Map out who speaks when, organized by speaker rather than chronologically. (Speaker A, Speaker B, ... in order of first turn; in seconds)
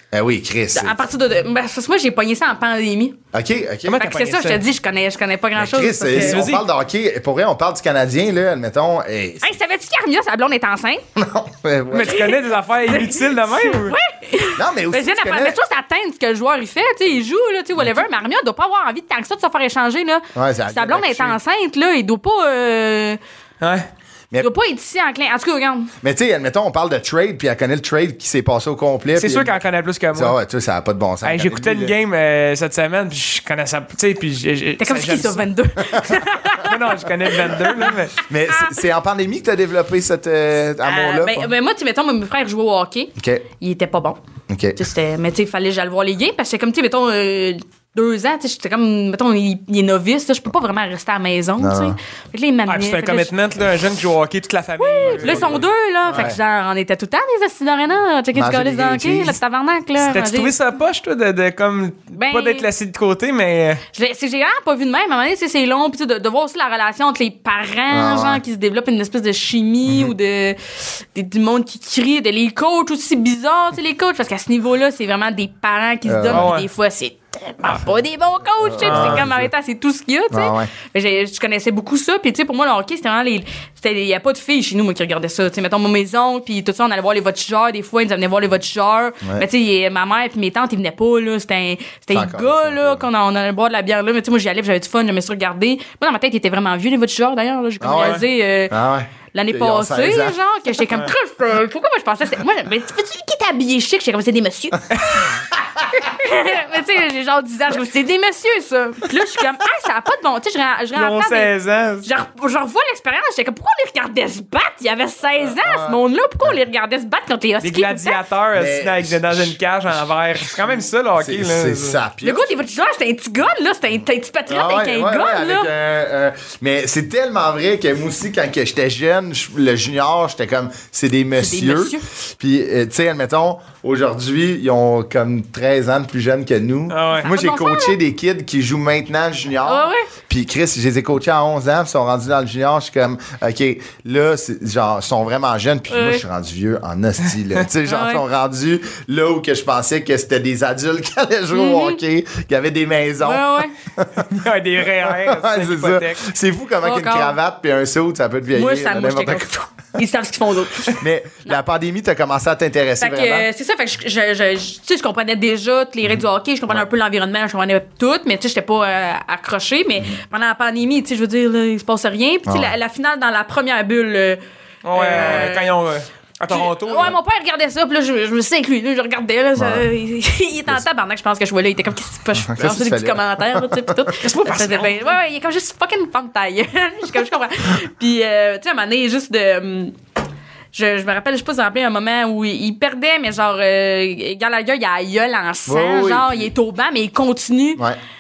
Speaker A: 0.1-1.0, 3.3-4.0, 5.5-9.5, 11.2-12.2, 14.5-15.6, 20.3-21.4, 26.0-29.5, 30.1-31.9, 38.2-41.5, 43.2-43.4, 44.5-44.8, 51.6-52.0, 55.1-56.4, 58.3-59.4, 67.9-68.4, 76.0-76.5, 78.6-79.5, 80.3-80.7, 92.1-93.0, 97.8-100.4, 115.6-116.5, 118.5-122.5, 124.5-154.3, 155.0-159.5, 160.8-163.5, 166.1-166.8, 172.4-172.7, 179.6-179.9, 182.3-184.0, 195.7-196.5
Speaker B: 0.7-3.2, 4.0-6.4, 9.4-11.0, 12.1-23.2, 24.4-25.9, 34.8-37.9, 40.8-44.2, 44.8-53.3, 54.8-60.5, 62.1-62.7, 63.9-98.8, 99.3-105.4, 105.9-111.5, 112.0-118.2, 122.2-125.7, 131.3-132.0, 137.2-138.0, 139.6-140.1, 145.9-146.2, 147.8-148.2, 151.5-152.0, 153.2-153.7, 156.8-157.3, 158.5-160.9, 163.0-174.4, 174.9-175.7, 176.5-189.9, 190.7-197.8
Speaker C: 3.8-4.6, 6.1-6.6, 11.9-13.9, 23.6-23.9, 29.1-30.4, 31.2-35.4, 36.5-38.2, 52.7-55.6, 60.0-63.8, 76.3-76.7, 78.8-79.2, 98.0-98.2, 110.9-112.1, 117.6-122.0, 136.9-137.3, 154.2-156.3, 174.8-177.1, 184.2-185.1